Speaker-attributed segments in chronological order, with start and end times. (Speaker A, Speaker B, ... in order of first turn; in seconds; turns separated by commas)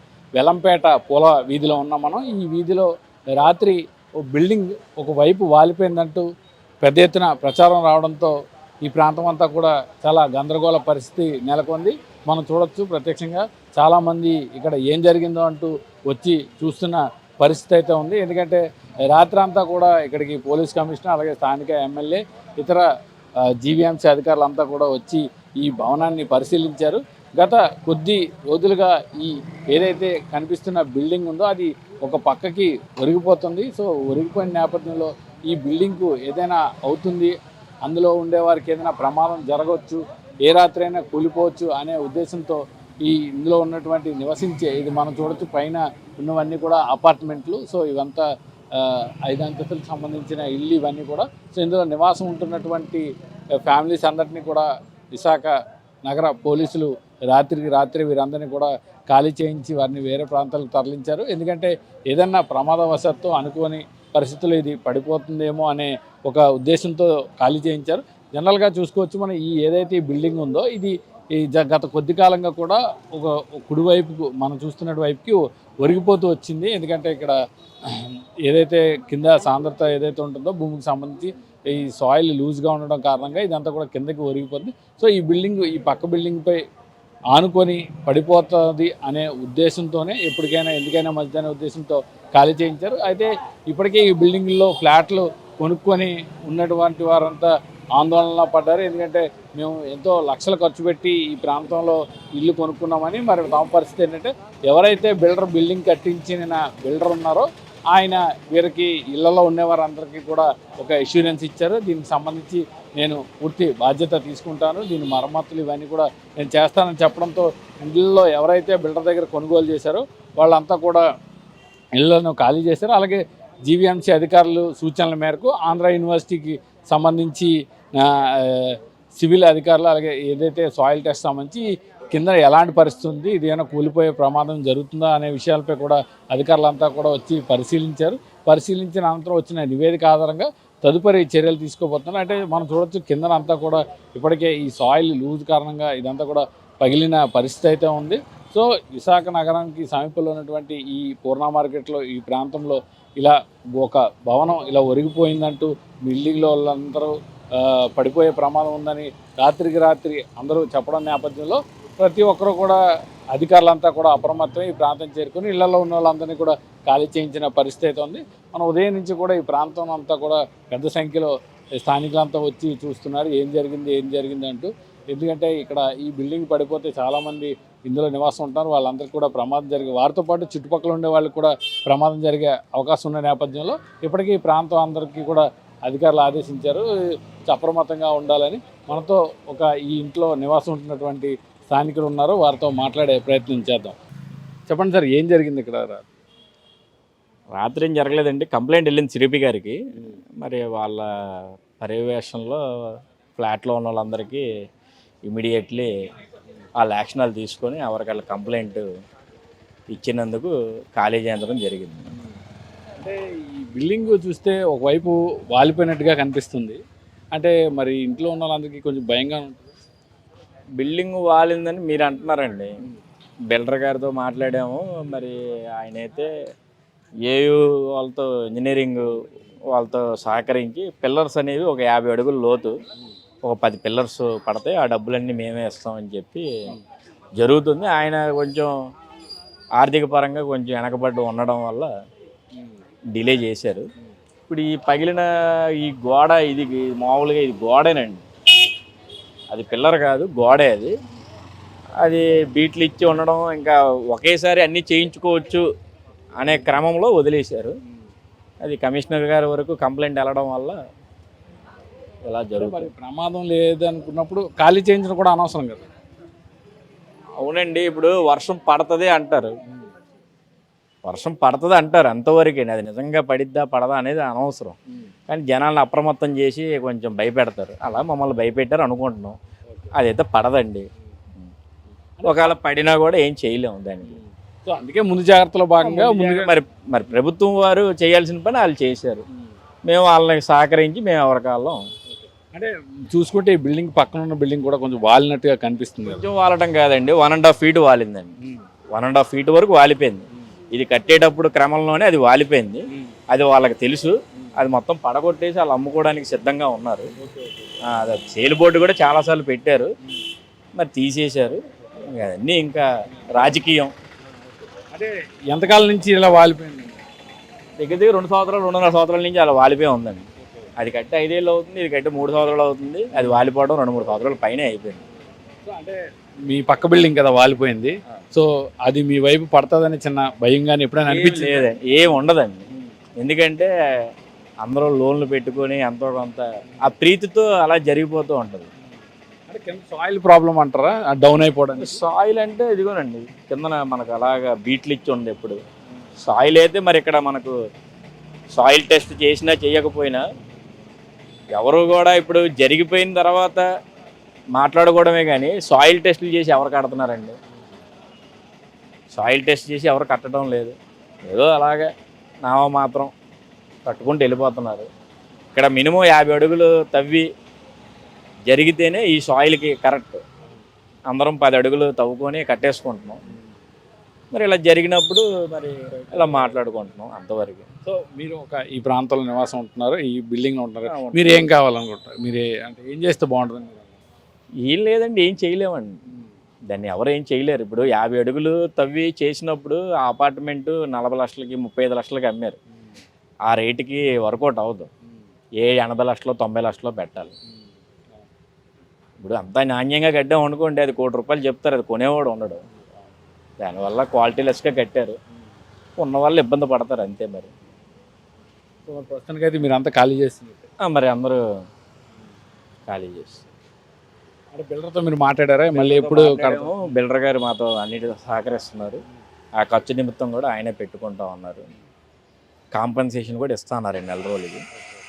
Speaker A: 0.3-6.2, Speaker A: 6.8-22.9, Speaker A: 23.4-77.4, Speaker A: 77.9-86.6, Speaker A: 87.3-121.0, Speaker A: 122.0-162.8, Speaker A: 163.3-186.9, Speaker A: 187.5-194.0, Speaker A: 194.7-196.0, Speaker B: 197.6-199.8, Speaker B: 200.4-202.6, Speaker B: 203.4-204.4, Speaker B: 205.3-205.9, Speaker B: 206.8-208.8, Speaker B: 209.9-212.1, Speaker A: 213.0-216.8, Speaker A: 217.3-219.7, Speaker B: 220.8-222.7, Speaker B: 223.5-226.3, Speaker B: 227.2-232.8, Speaker B: 233.4-236.5, Speaker B: 237.4-238.7, Speaker B: 239.8-241.9, Speaker B: 243.1-243.9, Speaker B: 244.5-248.2, Speaker B: 249.5-250.9, Speaker B: 252.0-255.6, Speaker B: 256.4-257.7, Speaker B: 258.6-260.8, Speaker B: 262.3-262.9, Speaker A: 262.6-265.9, Speaker B: 267.4-269.5, Speaker B: 271.0-274.8, Speaker B: 275.3-279.4, Speaker B: 279.9-280.9, Speaker A: 282.2-282.5, Speaker B: 282.2-284.2, Speaker A: 284.1-286.5, Speaker B: 285.8-289.2, Speaker B: 289.9-291.8, Speaker A: 292.1-296.2, Speaker B: 296.1-298.3, Speaker B: 298.9-307.1, Speaker A: 307.2-307.8, Speaker B: 307.9-309.9, Speaker B: 310.8-313.9, Speaker A: 314.7-317.0, Speaker B: 317.8-325.0, Speaker A: 325.6-331.7, Speaker B: 331.1-333.7, Speaker B: 334.6-338.7, Speaker A: 339.5-342.0, Speaker B: 341.8-345.6, Speaker B: 346.2-347.5, Speaker B: 348.5-350.2, Speaker B: 351.5-353.6, Speaker B: 354.5-357.4, Speaker B: 359.1-361.9, Speaker B: 362.4-363.1, Speaker B: 363.9-364.9, Speaker B: 365.5-367.3, Speaker B: 368.5-370.2, Speaker B: 371.1-373.2, Speaker B: 374.3-377.7, Speaker A: 377.9-384.0, Speaker B: 380.9-381.4, Speaker B: 384.6-385.9, Speaker B: 386.7-392.6, Speaker B: 393.5-394.9, Speaker B: 395.6-397.3, Speaker B: 399.2-402.6, Speaker B: 403.6-405.2, Speaker B: 406.0-407.5, Speaker A: 408.9-410.7, Speaker B: 410.8-411.4, Speaker B: 412.9-413.4, Speaker A: 414.5-416.7, Speaker B: 415.7-419.0, Speaker B: 419.6-421.7, Speaker B: 422.7-424.6